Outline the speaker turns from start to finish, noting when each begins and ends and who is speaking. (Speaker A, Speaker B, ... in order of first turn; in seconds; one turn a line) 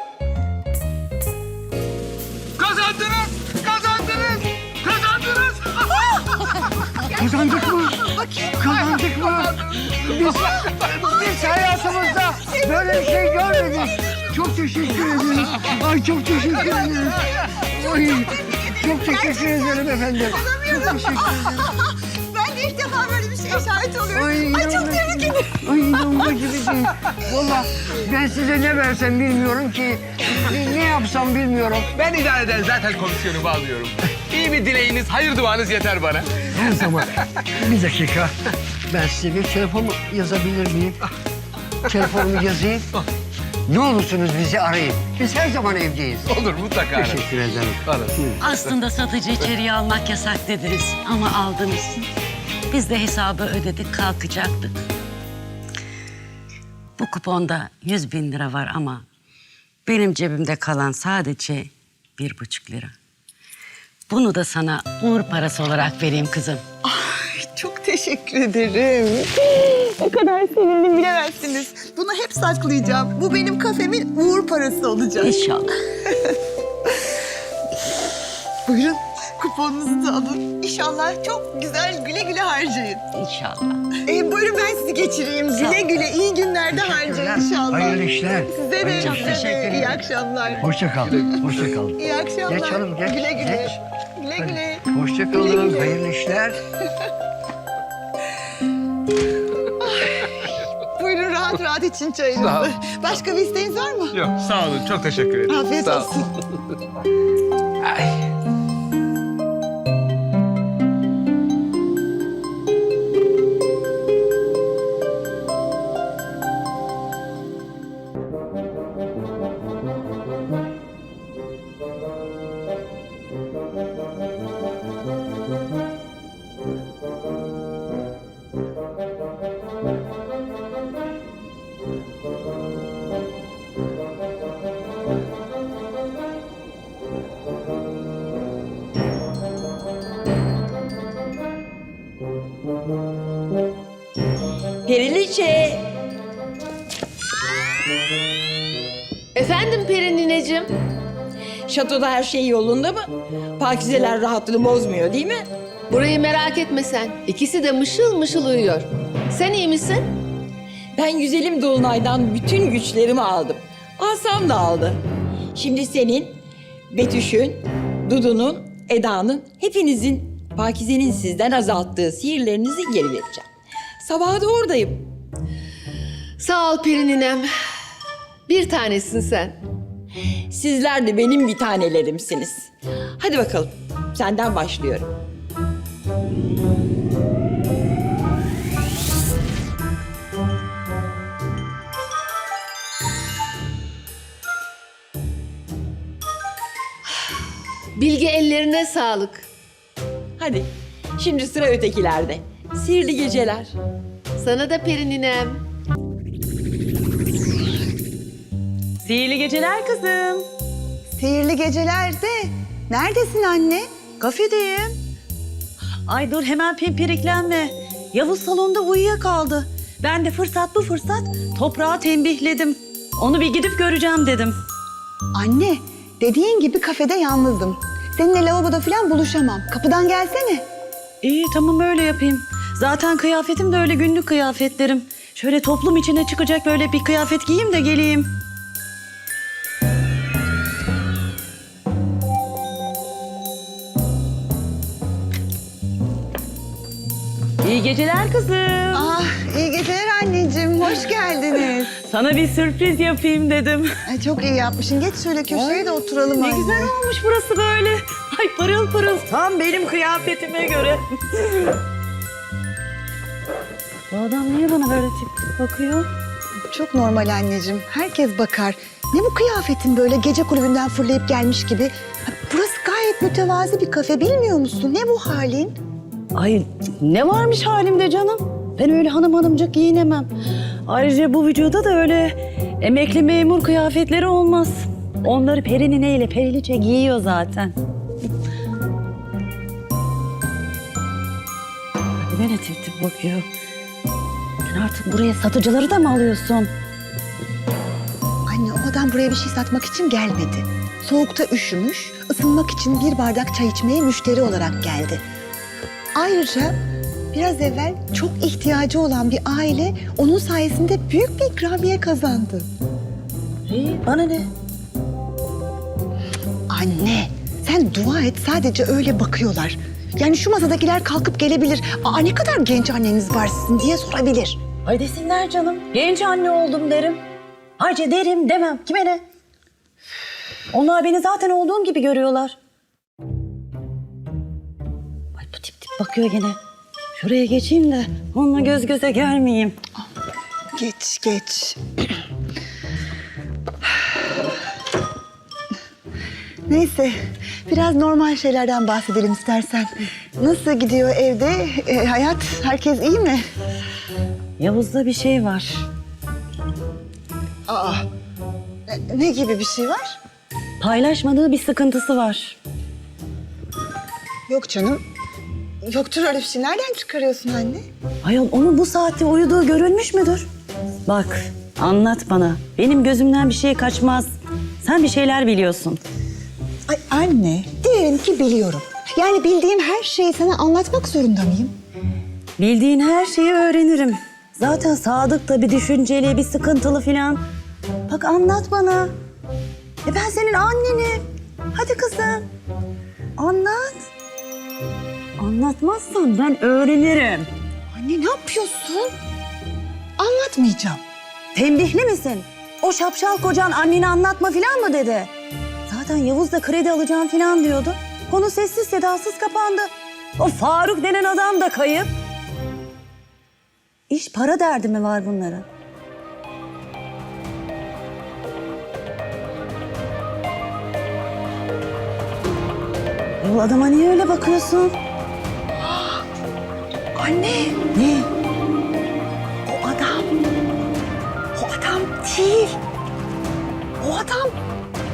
Speaker A: 2.6-5.9
Speaker B: 7.1-21.7
Speaker C: 7.9-9.0
Speaker C: 10.3-14.2
Speaker C: 16.4-25.6
Speaker B: 24.1-31.9
Speaker A: 31.9-37.0
Speaker B: 36.5-38.3
Speaker B: 38.9-41.0
Speaker B: 41.9-42.9
Speaker B: 43.7-46.3
Speaker A: 46.3-47.3
Speaker B: 47.0-48.4
Speaker A: 47.9-48.8
Speaker D: 48.4-52.0
Speaker D: 52.7-54.7
Speaker D: 57.0-59.0
Speaker D: 59.9-63.0
Speaker D: 64.1-66.6
Speaker C: 66.8-69.7
Speaker E: 70.0-71.0
Speaker C: 70.8-75.4
Speaker D: 75.2-75.7
Speaker C: 76.1-76.4
Speaker C: 78.7-83.0
Speaker D: 83.1-83.8
Speaker C: 84.1-90.7
Speaker D: 85.6-85.8
Speaker B: 86.7-89.4
Speaker D: 88.8-90.1
Speaker B: 90.6-93.8
Speaker C: 92.0-95.9
Speaker B: 94.4-96.6
Speaker C: 99.8-104.2
Speaker A: 102.4-102.7
Speaker A: 104.1-106.1
Speaker C: 105.5-106.3
Speaker A: 107.8-108.2
Speaker F: 144.8-146.0
Speaker G: 149.3-150.7
Speaker F: 151.7-155.5
Speaker G: 155.9-160.2
Speaker F: 160.9-165.0
Speaker F: 165.6-166.4
Speaker F: 166.9-173.5
Speaker F: 174.0-175.1
Speaker G: 176.4-177.5
Speaker G: 178.5-179.6
Speaker F: 180.5-185.1
Speaker G: 198.0-199.5
Speaker F: 200.4-203.7
Speaker G: 204.4-205.6
Speaker E: 209.0-210.5
Speaker C: 211.2-213.9
Speaker E: 214.2-215.0
Speaker E: 216.1-224.6
Speaker C: 225.3-230.7
Speaker E: 231.2-238.3
Speaker E: 247.6-249.2
Speaker C: 248.9-251.9
Speaker E: 251.9-253.9
Speaker C: 254.1-256.9
Speaker E: 255.5-261.8
Speaker E: 264.1-266.1
Speaker C: 266.7-275.8
Speaker E: 276.4-280.3
Speaker E: 280.9-287.8
Speaker E: 292.2-293.5
Speaker E: 294.7-296.7
Speaker C: 298.5-305.2
Speaker C: 306.1-306.8
Speaker C: 307.3-312.7
Speaker E: 313.7-314.5
Speaker C: 316.7-324.6
Speaker E: 324.9-327.2
Speaker E: 327.8-329.2
Speaker E: 330.7-332.6
Speaker E: 335.4-336.6
Speaker E: 337.2-339.8
Speaker C: 340.8-341.8
Speaker C: 346.7-353.4
Speaker E: 354.6-355.9
Speaker C: 357.7-358.1
Speaker C: 358.9-360.2
Speaker E: 360.8-362.6
Speaker C: 364.5-365.0
Speaker C: 365.9-367.9
Speaker E: 368.2-370.5
Speaker E: 371.1-374.3
Speaker E: 374.8-376.0
Speaker C: 376.9-381.7
Speaker E: 382.6-387.4
Speaker E: 388.1-389.1
Speaker E: 390.1-392.5
Speaker E: 393.4-394.1
Speaker E: 395.4-397.5
Speaker C: 397.9-399.1
Speaker C: 400.2-401.0
Speaker E: 401.6-405.3
Speaker E: 405.9-412.1
Speaker E: 414.1-415.6
Speaker E: 423.4-424.9
Speaker C: 427.1-427.9
Speaker E: 427.9-428.3
Speaker C: 429.6-430.3
Speaker C: 431.6-432.8
Speaker C: 434.0-434.6